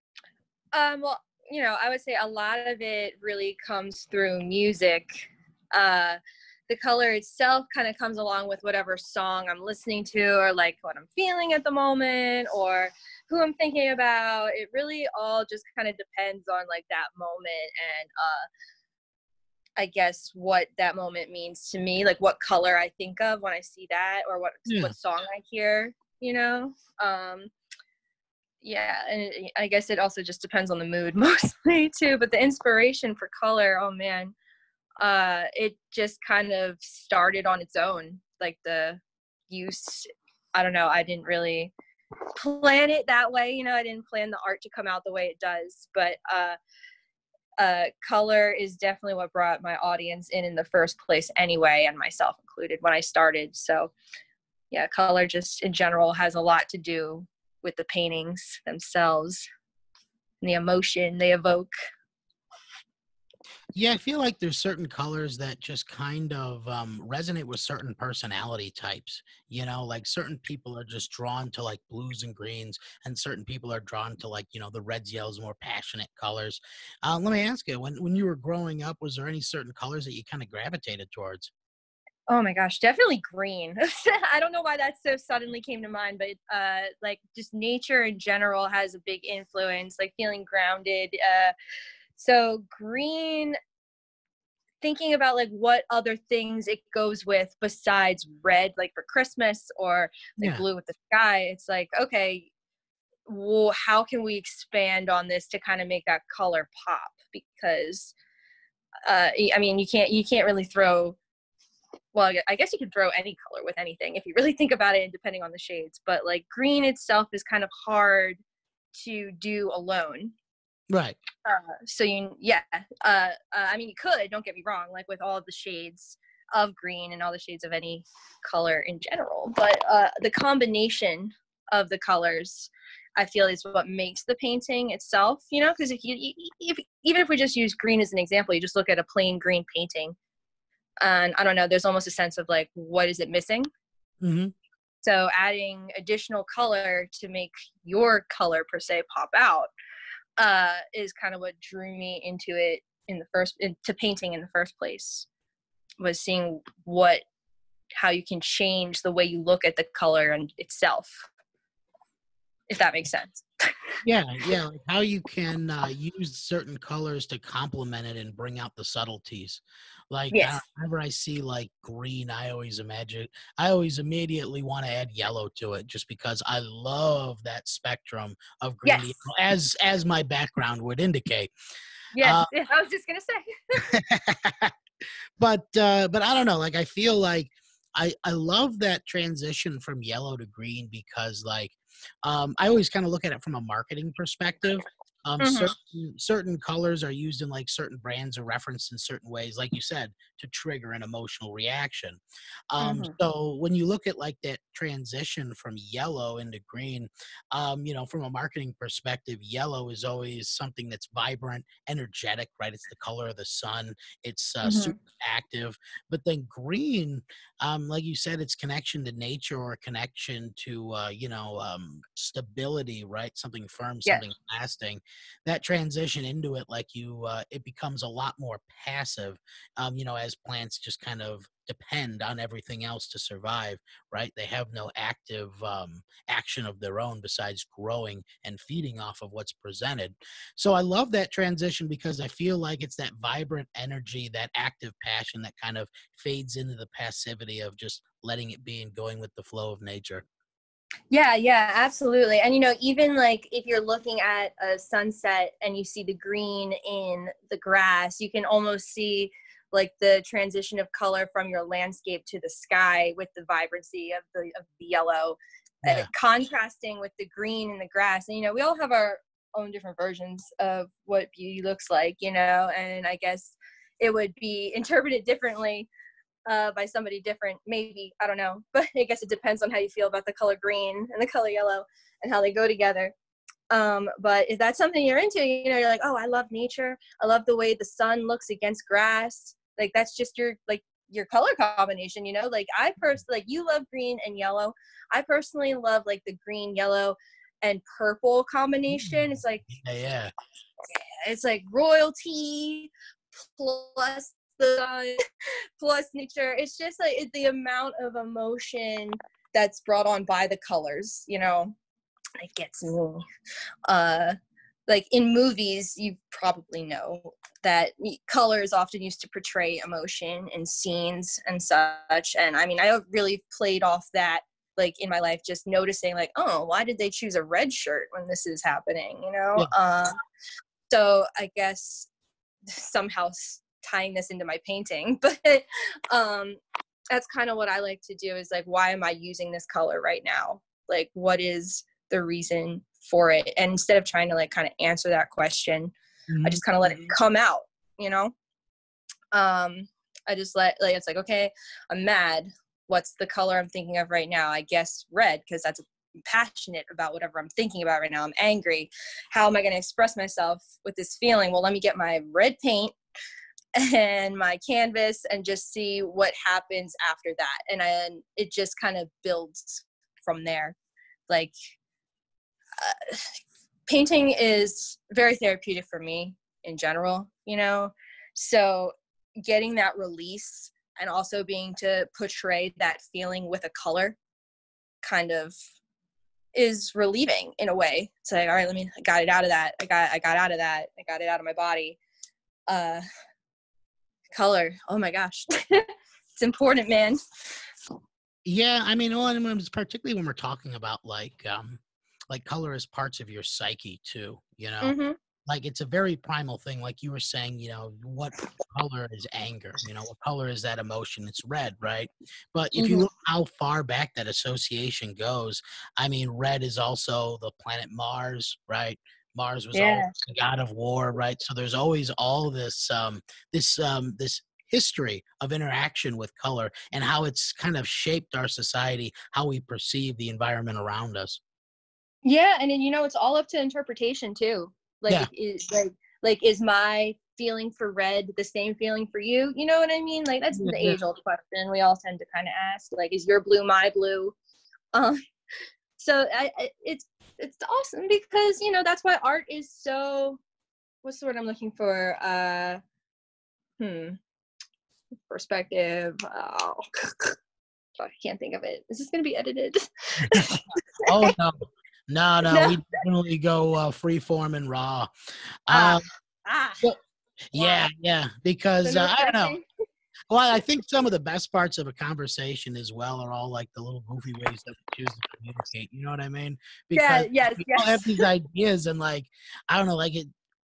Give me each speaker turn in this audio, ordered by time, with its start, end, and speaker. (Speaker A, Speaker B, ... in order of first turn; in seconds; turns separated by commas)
Speaker A: 0.7-18.5, Speaker A: 19.8-27.5, Speaker B: 24.7-24.9, Speaker A: 28.6-34.3, Speaker A: 35.0-41.7, Speaker A: 42.4-46.6, Speaker A: 47.6-53.9, Speaker A: 54.7-59.5, Speaker A: 60.4-61.7, Speaker B: 63.8-81.5, Speaker A: 82.3-91.5, Speaker A: 92.2-93.6, Speaker A: 94.8-102.5, Speaker A: 103.3-108.2, Speaker A: 109.1-111.2, Speaker A: 112.1-118.4, Speaker A: 119.0-120.3, Speaker B: 120.9-121.2, Speaker A: 121.4-140.2, Speaker A: 141.0-143.7, Speaker B: 144.2-144.5, Speaker A: 145.0-149.7, Speaker A: 150.4-155.3, Speaker A: 156.0-157.2, Speaker A: 158.0-161.3, Speaker A: 162.7-163.7, Speaker B: 164.0-181.5, Speaker A: 170.3-170.6, Speaker A: 178.8-179.2, Speaker A: 182.1-183.9, Speaker B: 182.2-182.5, Speaker B: 183.9-184.7, Speaker B: 185.4-250.2, Speaker A: 195.4-195.7, Speaker A: 202.8-203.2, Speaker A: 214.6-214.9, Speaker A: 251.1-275.9, Speaker A: 276.5-283.1, Speaker A: 283.7-299.6, Speaker B: 298.9-300.3, Speaker A: 300.9-302.9, Speaker A: 303.4-305.2, Speaker A: 305.8-311.8, Speaker A: 312.4-313.2, Speaker A: 313.9-314.4, Speaker A: 314.9-330.2, Speaker A: 330.9-332.1, Speaker A: 332.7-336.6, Speaker A: 337.1-345.9, Speaker B: 346.3-347.1, Speaker A: 346.4-348.3, Speaker A: 349.3-363.0, Speaker A: 363.8-370.8, Speaker A: 371.3-371.6, Speaker A: 372.8-384.2, Speaker A: 385.0-385.6, Speaker A: 386.5-392.0, Speaker A: 392.7-393.0, Speaker A: 394.3-397.2, Speaker B: 398.5-404.9, Speaker A: 404.8-405.2, Speaker B: 405.5-431.4, Speaker A: 412.8-413.1, Speaker A: 419.7-420.1, Speaker A: 432.2-444.4, Speaker B: 440.5-441.0, Speaker A: 444.9-445.2, Speaker A: 446.0-450.4, Speaker A: 451.0-452.8, Speaker A: 453.8-454.2, Speaker A: 455.3-457.4, Speaker A: 458.0-461.0, Speaker B: 460.3-465.1, Speaker A: 462.5-462.8, Speaker B: 465.7-466.1, Speaker A: 465.7-466.8, Speaker B: 467.5-469.6, Speaker A: 467.5-467.9, Speaker A: 468.8-469.6, Speaker B: 470.3-480.3, Speaker A: 476.9-478.2